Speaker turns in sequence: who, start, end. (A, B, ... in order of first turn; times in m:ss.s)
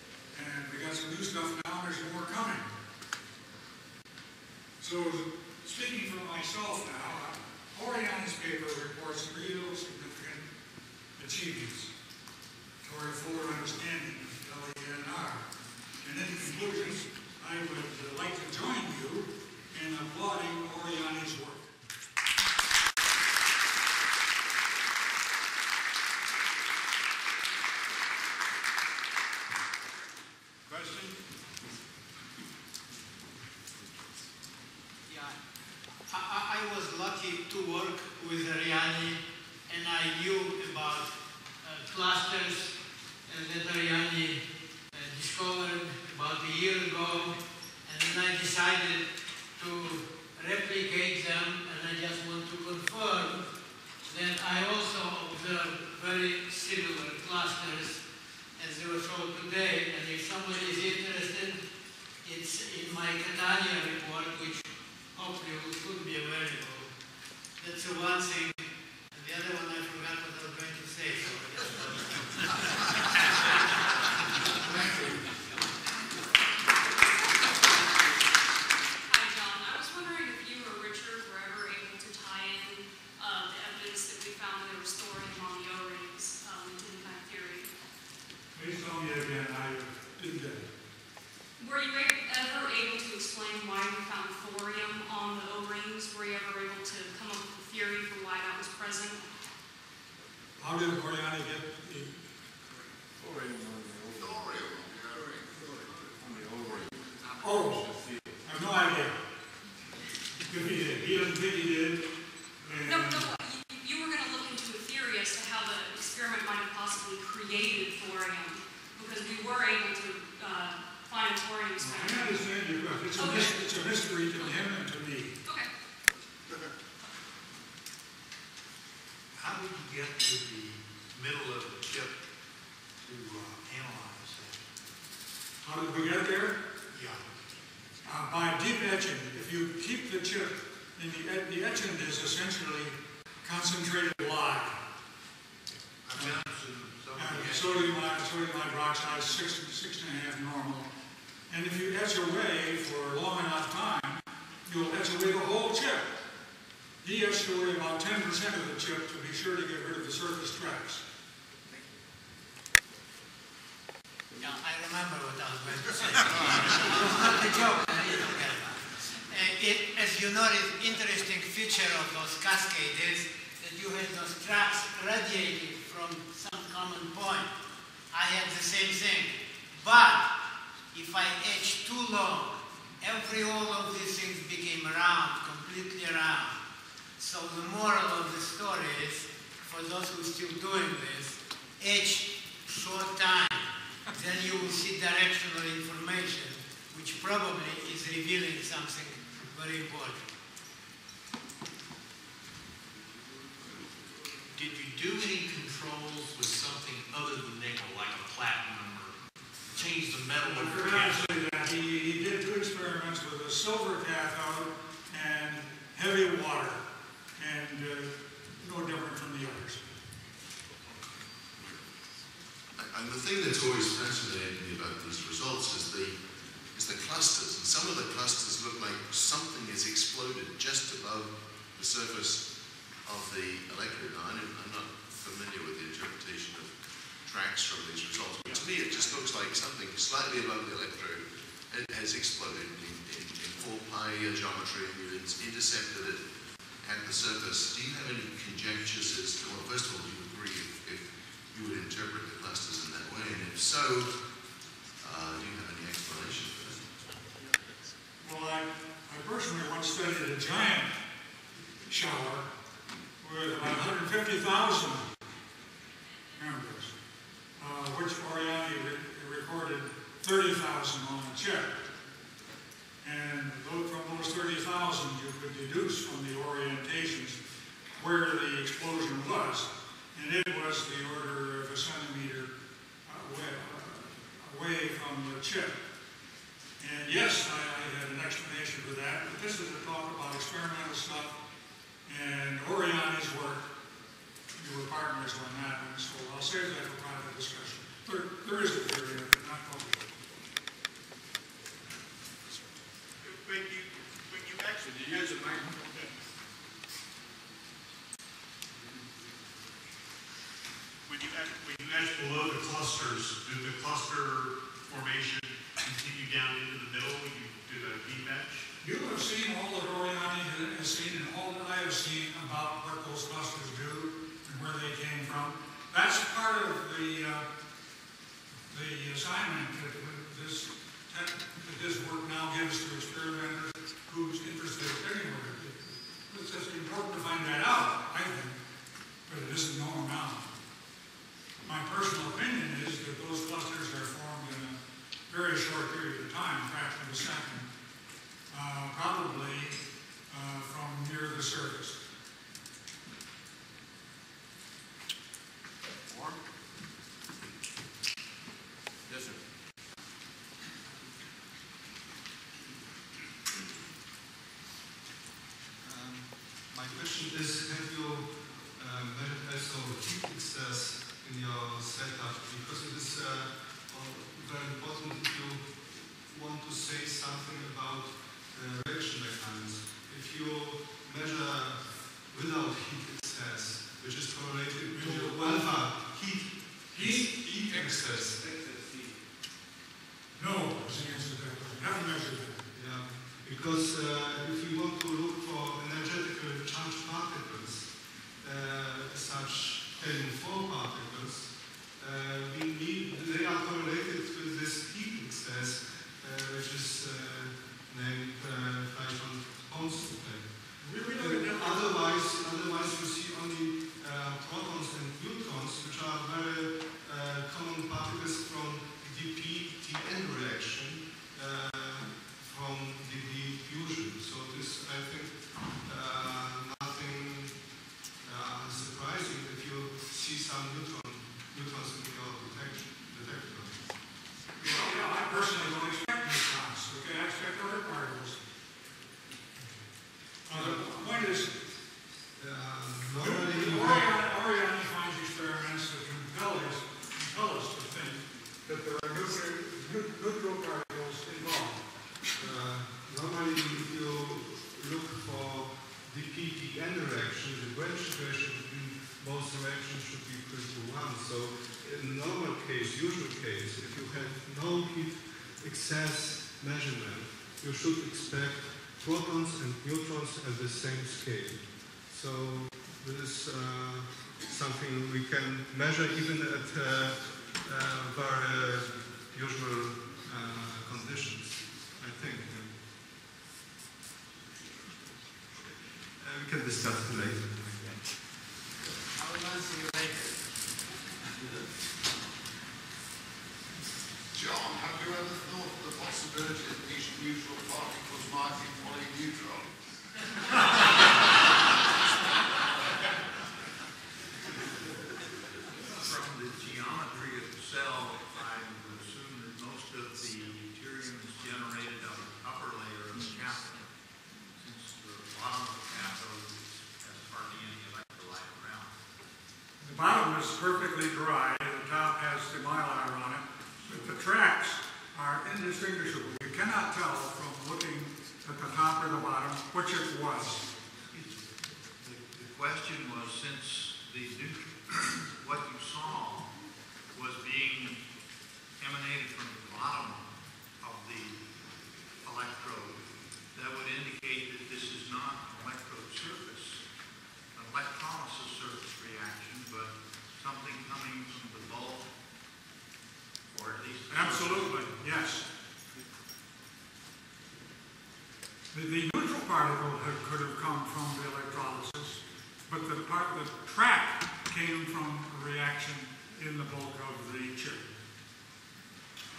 0:00.3-0:02.7 A
0:04.8-0:10.5 A
0:11.2-0:11.9 A
0:12.8-0:15.5 A
0:16.0-0:21.7 A
0:35.1-0:35.4 B
0:36.1-0:53.4 B
0:54.1-0:58.0 B
0:58.6-1:01.6 B
1:02.2-1:06.9 B
1:07.6-1:12.6 B
1:14.6-1:15.1 A
1:19.0-1:27.7 C
1:28.5-1:30.7 A
1:31.6-1:39.2 C
1:40.6-1:42.1 A
1:44.1-1:46.1 D
1:47.4-1:49.2 A
1:50.4-1:52.1 A
1:52.6-1:53.3 A
1:52.8-2:02.5 C
2:01.8-2:05.4 A
2:03.1-2:03.8 C
2:05.4-2:05.7 C
2:09.3-2:12.1 E
2:13.0-2:14.6 E
2:15.6-2:16.6 A
2:18.0-2:24.8 A
2:26.0-2:28.2 E
2:26.1-2:26.4 A
2:27.1-2:30.9 A
2:31.5-2:36.1 A
2:37.0-2:41.0 A
2:44.4-2:57.5 B
2:58.1-3:00.3 B
3:00.9-3:06.6 B
3:07.2-3:20.2 B
3:24.5-3:29.2 F
3:29.7-3:31.2 F
3:30.5-3:36.8 A
3:37.4-3:39.8 A
3:42.8-3:46.2 G
3:46.7-4:06.2 G
4:06.8-4:14.3 G
4:15.0-4:17.0 G
4:18.2-4:20.9 A
4:21.9-4:22.5 A
4:23.2-4:25.0 A
4:26.4-4:26.9 A
4:27.6-4:31.8 A
4:33.0-4:37.4 A
4:38.0-4:42.5 A
4:43.0-4:45.8 A
4:46.8-4:51.4 A
4:52.0-4:53.7 A
4:54.5-5:00.1 A
5:03.2-5:06.1 H
5:11.0-5:18.7 H
5:18.8-5:27.5 A
5:28.7-5:38.6 A
5:39.2-5:40.5 A
5:41.6-5:47.7 A
5:48.5-5:52.0 A
6:05.8-6:28.4 I
6:24.9-6:25.6 A
6:26.9-6:27.8 A
6:30.4-6:32.7 A
6:32.7-7:14.0 I
6:50.8-6:52.2 A
7:14.6-7:18.4 A
7:20.4-7:21.7 A
7:20.5-7:20.9 I
7:22.4-7:24.1 I
7:23.2-7:31.8 A
7:32.4-8:02.8 I
8:06.2-8:08.3 I
8:09.2-8:10.2 B
8:14.3-8:19.7 D
8:25.9-8:33.9 E
8:34.6-8:38.9 E
8:39.8-8:50.6 A
8:51.1-8:51.4 E
8:52.0-8:56.5 E
8:57.1-8:58.0 E
8:58.8-9:00.3 E
9:00.8-9:01.4 E
9:02.2-9:03.0 E
9:03.5-9:06.8 E
9:07.5-9:12.1 E
9:13.5-9:14.9 E
9:14.1-9:15.4 A
9:18.7-9:27.9 A